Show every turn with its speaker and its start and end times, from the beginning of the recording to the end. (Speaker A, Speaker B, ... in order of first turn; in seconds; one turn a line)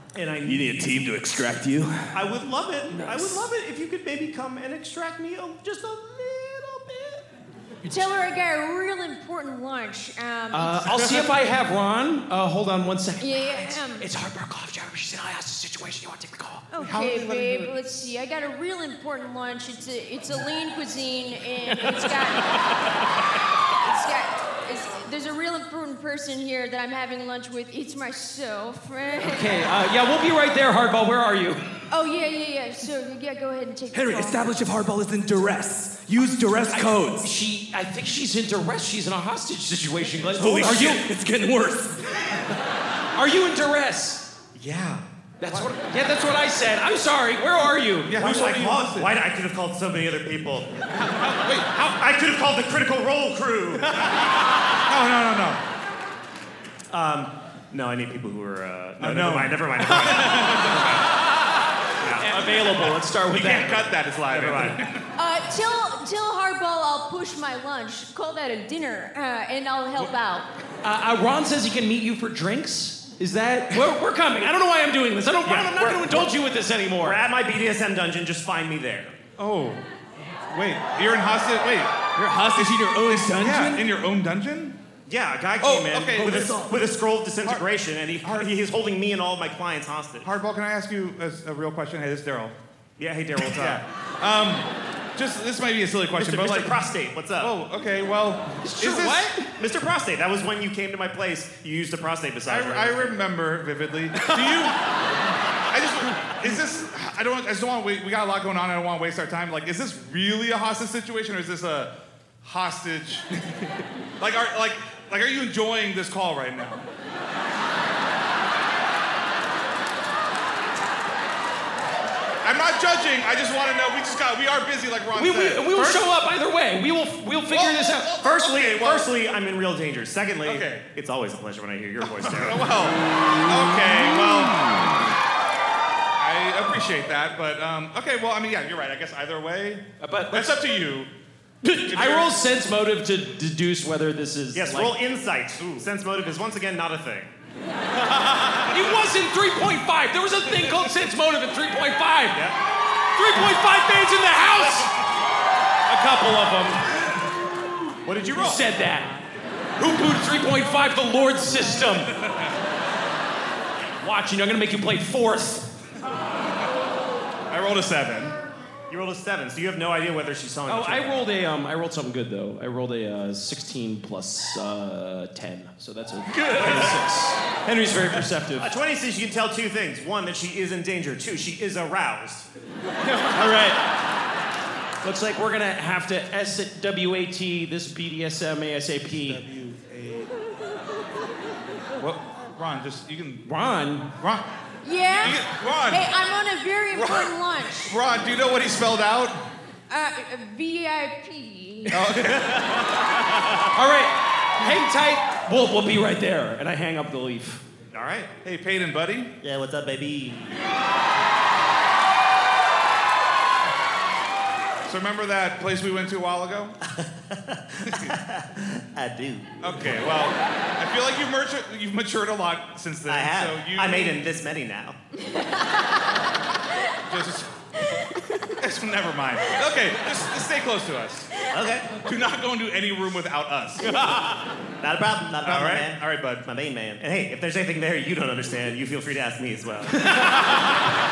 Speaker A: 0.1-1.1
Speaker B: 0.5-2.1
Speaker A: 2.1-7.2
Speaker B: 3.1-3.4
Speaker C: 7.9-11.0
Speaker D: 10.5-16.7
Speaker C: 13.2-14.1
Speaker C: 16.7-22.5
Speaker E: 16.8-17.7
Speaker D: 21.8-22.4
Speaker C: 23.8-29.5
Speaker D: 29.2-31.6
Speaker C: 31.9-34.4
Speaker B: 33.9-37.3
Speaker D: 36.7-41.0
Speaker B: 40.3-42.2
Speaker D: 43.1-44.3
Speaker A: 44.6-45.0
Speaker D: 45.4-48.2
Speaker E: 48.0-49.1
Speaker A: 48.2-50.8
Speaker E: 50.9-51.9
Speaker A: 51.8-54.0
Speaker E: 54.9-55.6
Speaker A: 56.9-61.0
Speaker E: 59.0-61.0
Speaker A: 62.0-62.3
Speaker D: 62.2-63.9
Speaker E: 63.2-65.1
Speaker A: 64.3-64.8
Speaker C: 65.2-70.5
Speaker D: 70.8-77.2
Speaker A: 75.5-76.3
Speaker A: 77.0-79.2
Speaker E: 79.4-79.8
Speaker E: 80.5-81.9
Speaker B: 82.2-83.8
Speaker E: 82.5-84.8
Speaker A: 85.1-90.3
Speaker E: 85.6-86.7
Speaker E: 88.2-88.5
Speaker E: 90.2-92.5
Speaker A: 93.0-93.8
Speaker E: 93.4-96.8
Speaker A: 96.2-97.5
Speaker E: 97.4-99.3
Speaker D: 98.6-99.5
Speaker A: 99.6-103.2
Speaker E: 102.5-104.8
Speaker E: 105.7-113.3
Speaker E: 114.2-116.8
Speaker E: 122.4-126.0
Speaker D: 125.2-128.1
Speaker E: 127.5-129.1
Speaker A: 128.2-132.7
Speaker E: 130.4-130.8
Speaker E: 132.0-134.8
Speaker E: 136.2-141.1
Speaker D: 140.0-140.6
Speaker D: 141.6-145.0
Speaker E: 141.9-142.3
Speaker A: 144.5-147.3
Speaker E: 145.6-145.8
Speaker D: 148.7-152.5
Speaker D: 153.2-154.9
Speaker D: 155.9-156.9
Speaker A: 158.1-158.7
Speaker D: 158.3-159.1
Speaker D: 159.8-162.1
Speaker D: 164.0-165.7
Speaker E: 167.5-168.4
Speaker A: 168.9-171.3
Speaker D: 170.7-178.7
Speaker A: 178.6-182.5
Speaker D: 183.3-183.8
Speaker D: 185.0-189.4
Speaker E: 189.1-190.3
Speaker E: 192.0-193.5
Speaker D: 193.4-194.1
Speaker E: 194.2-194.5
Speaker C: 194.8-198.0
Speaker E: 195.1-196.1
Speaker E: 196.9-199.4
Speaker C: 199.9-202.0
Speaker E: 201.9-203.1
Speaker D: 203.7-207.6
Speaker A: 207.9-208.3
Speaker E: 208.4-209.3
Speaker A: 209.4-210.5
Speaker E: 214.9-216.8
Speaker E: 217.8-218.2
Speaker A: 219.0-219.5
Speaker E: 219.6-224.2
Speaker A: 223.1-225.0
Speaker E: 227.1-227.5
Speaker E: 228.6-231.3
Speaker A: 231.5-231.9
Speaker E: 231.9-234.0
Speaker A: 234.8-240.2
Speaker E: 235.4-236.4